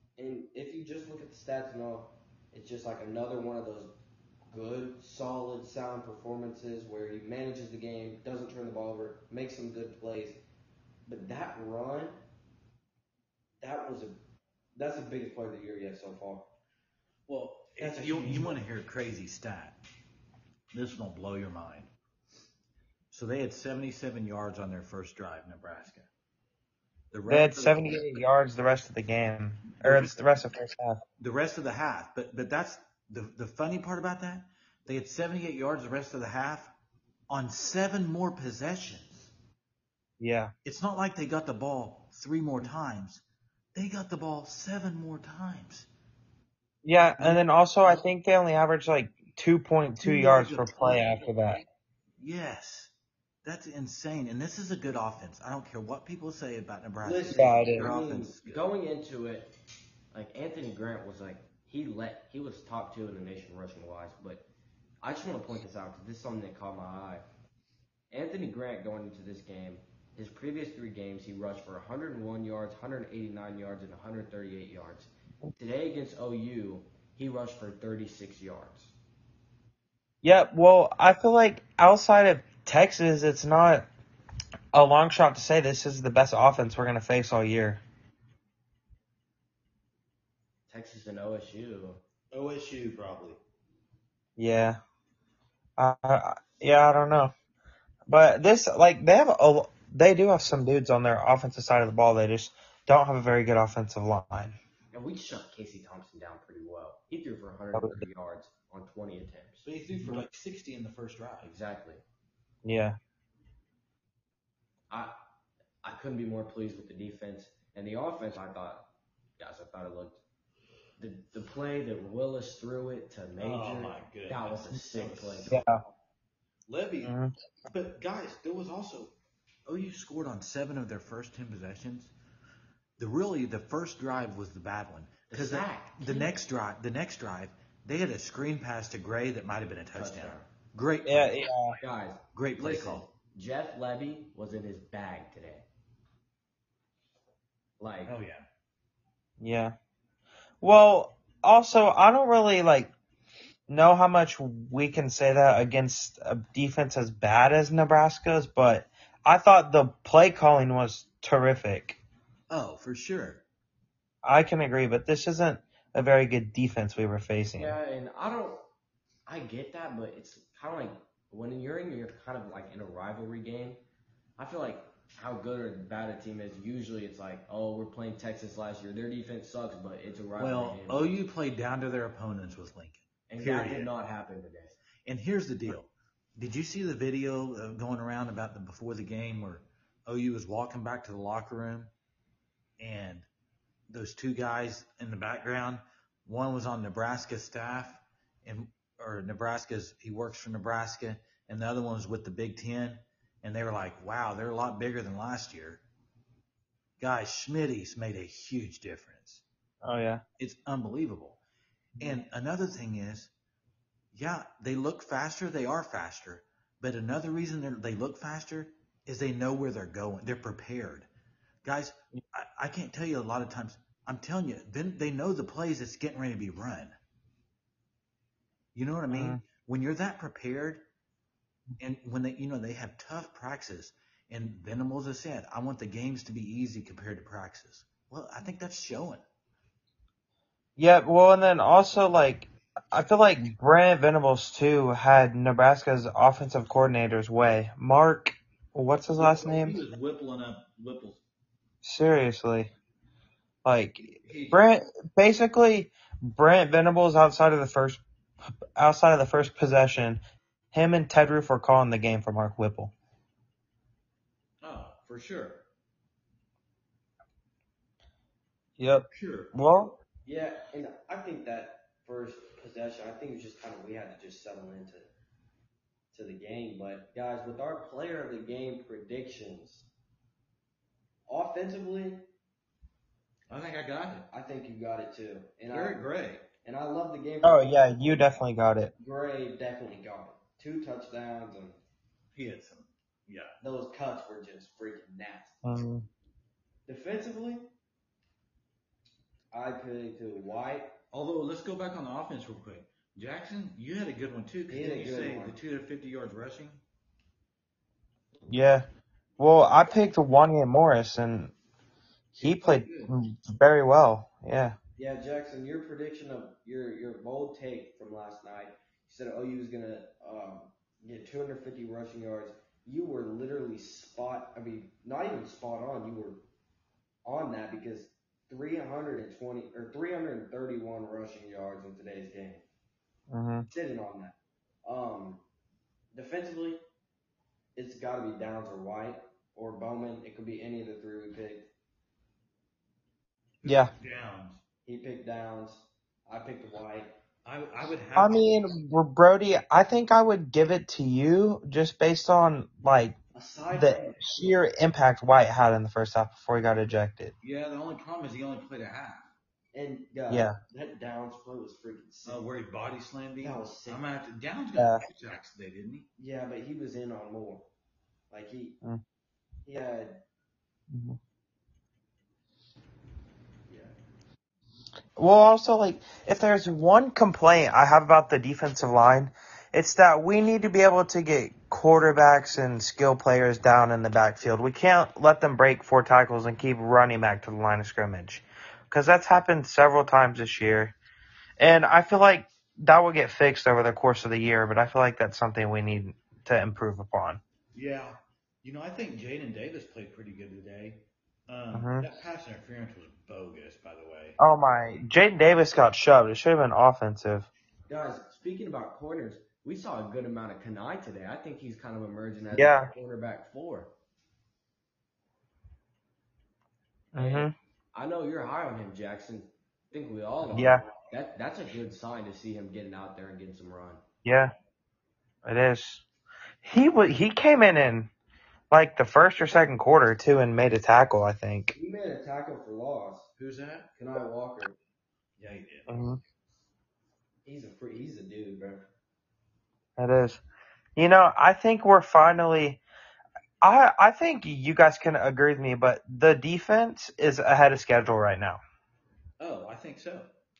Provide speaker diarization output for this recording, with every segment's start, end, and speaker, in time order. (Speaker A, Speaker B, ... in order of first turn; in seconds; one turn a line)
Speaker A: 0.2-3.9
Speaker A: 4.5-10.4
Speaker A: 11.1-12.2
Speaker A: 13.6-14.2
Speaker A: 14.8-16.5
Speaker B: 17.3-19.8
Speaker A: 17.8-18.6
Speaker B: 20.7-21.9
Speaker B: 23.1-26.1
Speaker B: 27.1-28.2
Speaker C: 27.3-31.0
Speaker B: 29.7-30.2
Speaker B: 31.2-36.7
Speaker B: 37.3-39.3
Speaker C: 40.2-40.5
Speaker B: 40.6-43.2
Speaker B: 43.8-45.9
Speaker C: 46.8-51.6
Speaker B: 50.0-51.1
Speaker B: 52.2-52.9
Speaker B: 53.4-58.6
Speaker A: 57.0-59.5
Speaker C: 57.3-57.9
Speaker A: 60.1-64.5
Speaker A: 65.0-67.2
Speaker A: 68.1-79.0
Speaker C: 80.2-83.9
Speaker C: 84.7-87.8
Speaker A: 90.7-92.0
Speaker B: 92.3-93.4
Speaker C: 94.4-94.8
Speaker C: 95.8-97.3
Speaker C: 98.1-104.6
Speaker A: 104.9-109.7
Speaker C: 107.7-108.0
Speaker B: 109.6-111.5
Speaker A: 111.4-112.0
Speaker C: 112.6-113.0
Speaker A: 115.8-118.9
Speaker A: 119.4-120.2
Speaker A: 121.0-125.6
Speaker B: 123.4-125.6
Speaker C: 125.5-125.8
Speaker B: 126.7-129.1
Speaker C: 127.0-127.3
Speaker B: 129.7-132.1
Speaker B: 133.0-141.4
Speaker A: 135.3-136.3
Speaker A: 139.9-140.5
Speaker C: 141.1-141.8
Speaker A: 141.8-145.7
Speaker B: 142.3-143.1
Speaker A: 147.8-148.1
Speaker B: 148.1-148.4
Speaker C: 149.4-149.7
Speaker C: 150.6-152.9
Speaker C: 153.7-162.0
Speaker B: 162.5-163.4
Speaker C: 164.2-167.8
Speaker A: 167.6-168.7
Speaker A: 169.3-173.8
Speaker A: 174.4-181.1
Speaker B: 180.4-183.9
Speaker A: 183.3-184.8
Speaker B: 185.1-191.9
Speaker B: 192.8-193.3
Speaker B: 193.9-205.8
Speaker B: 207.0-209.4
Speaker C: 209.8-210.2
Speaker B: 210.4-211.4
Speaker B: 212.0-213.3
Speaker B: 214.1-221.1
Speaker B: 221.6-226.9
Speaker B: 228.8-230.8
Speaker C: 229.1-229.4
Speaker B: 231.8-239.2
Speaker C: 240.8-249.8
Speaker B: 249.1-251.2
Speaker C: 251.8-252.7
Speaker C: 253.6-258.0
Speaker B: 254.1-254.6
Speaker C: 258.8-260.2
Speaker C: 260.7-262.9
Speaker B: 264.6-265.6
Speaker C: 268.8-269.9
Speaker B: 269.1-269.5
Speaker A: 270.3-275.1
Speaker A: 276.1-279.9
Speaker A: 281.3-282.3
Speaker B: 283.5-284.3
Speaker A: 284.3-286.1
Speaker B: 285.7-286.5
Speaker A: 286.6-288.2
Speaker C: 287.4-288.9
Speaker A: 289.0-291.8
Speaker B: 292.4-293.6
Speaker A: 293.6-295.6
Speaker C: 295.6-296.1
Speaker A: 296.9-297.7
Speaker A: 299.5-301.0
Speaker B: 301.1-306.8
Speaker A: 304.7-305.6
Speaker C: 308.5-308.9
Speaker C: 309.4-311.5
Speaker B: 312.4-313.1
Speaker C: 312.4-314.8
Speaker A: 315.0-326.4
Speaker A: 327.2-332.6
Speaker C: 333.3-333.7
Speaker A: 333.7-335.4
Speaker A: 336.1-336.8
Speaker A: 337.8-341.7
Speaker B: 343.6-344.6
Speaker C: 343.6-343.9
Speaker A: 344.9-347.1
Speaker B: 347.4-348.4
Speaker C: 348.1-353.2
Speaker A: 353.4-354.2
Speaker C: 353.7-357.3
Speaker B: 357.4-359.3
Speaker A: 359.7-362.4
Speaker C: 360.3-360.6
Speaker B: 362.3-366.1
Speaker A: 363.4-364.0
Speaker C: 364.8-365.0
Speaker A: 366.2-367.6
Speaker A: 368.3-368.8
Speaker A: 369.6-370.2
Speaker C: 370.9-371.2
Speaker A: 373.7-373.9
Speaker C: 375.2-390.9
Speaker C: 391.6-397.4
Speaker B: 397.7-404.4
Speaker C: 401.7-402.1
Speaker C: 404.4-407.5
Speaker A: 407.9-413.9
Speaker C: 412.5-412.9
Speaker C: 417.1-417.5
Speaker A: 417.1-424.0
Speaker C: 420.5-420.9
Speaker C: 424.2-424.5
Speaker C: 425.4-426.0
Speaker C: 426.6-428.1
Speaker C: 428.7-431.8
Speaker A: 431.7-433.3
Speaker B: 433.4-433.9
Speaker A: 433.9-434.8
Speaker B: 435.4-435.9
Speaker C: 435.9-436.2
Speaker A: 437.4-438.9
Speaker C: 440.0-440.4
Speaker C: 440.9-442.8
Speaker C: 443.6-448.6
Speaker B: 449.4-450.3